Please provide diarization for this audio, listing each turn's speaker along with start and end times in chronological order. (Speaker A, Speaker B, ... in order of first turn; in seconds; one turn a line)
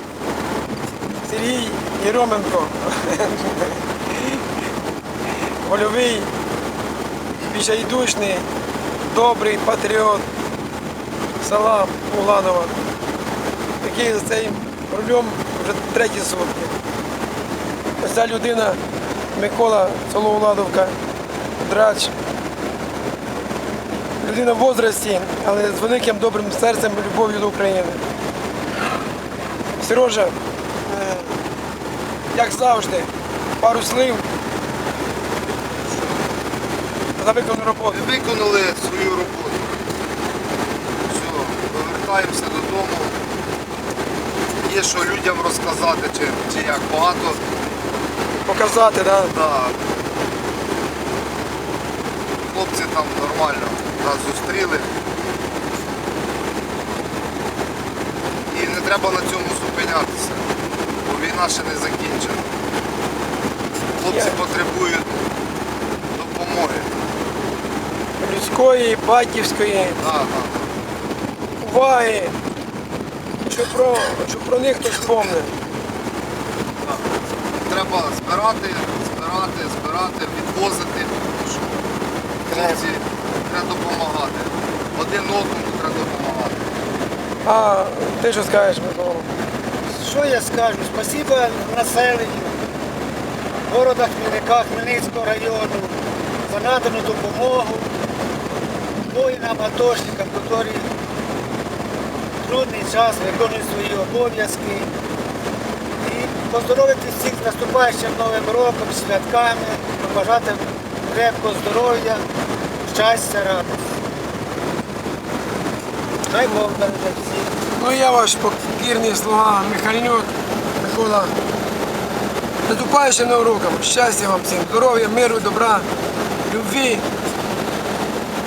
Speaker A: 1.2-4.4
Speaker A: 5.6-6.3
Speaker A: 7.4-8.4
Speaker A: 9.1-10.3
Speaker A: 11.4-12.8
Speaker A: 13.8-16.8
Speaker A: 18.0-18.8
Speaker A: 19.3-20.9
Speaker A: 21.6-22.1
Speaker A: 24.2-28.0
Speaker A: 29.8-31.4
Speaker A: 32.3-34.2
Speaker A: 37.2-38.0
Speaker B: 37.9-39.7
Speaker B: 41.1-43.2
Speaker B: 44.6-47.4
Speaker A: 48.4-49.3
Speaker B: 49.3-49.8
Speaker B: 52.4-54.9
Speaker B: 58.5-60.4
Speaker B: 61.0-62.5
Speaker A: 64.0-64.4
Speaker B: 64.0-65.2
Speaker B: 66.1-66.9
Speaker A: 68.2-70.0
Speaker B: 70.0-70.8
Speaker A: 71.6-72.4
Speaker A: 73.5-75.5
Speaker B: 77.6-81.8
Speaker C: 82.5-82.8
Speaker B: 82.7-86.7
Speaker A: 87.4-89.3
Speaker C: 90.0-92.6
Speaker C: 93.7-96.0
Speaker C: 96.5-97.9
Speaker C: 99.0-100.9
Speaker C: 102.4-104.9
Speaker C: 106.0-112.2
Speaker C: 112.8-113.8
Speaker C: 116.3-117.5
Speaker A: 117.8-121.3
Speaker A: 122.7-125.9
Speaker A: 126.5-127.0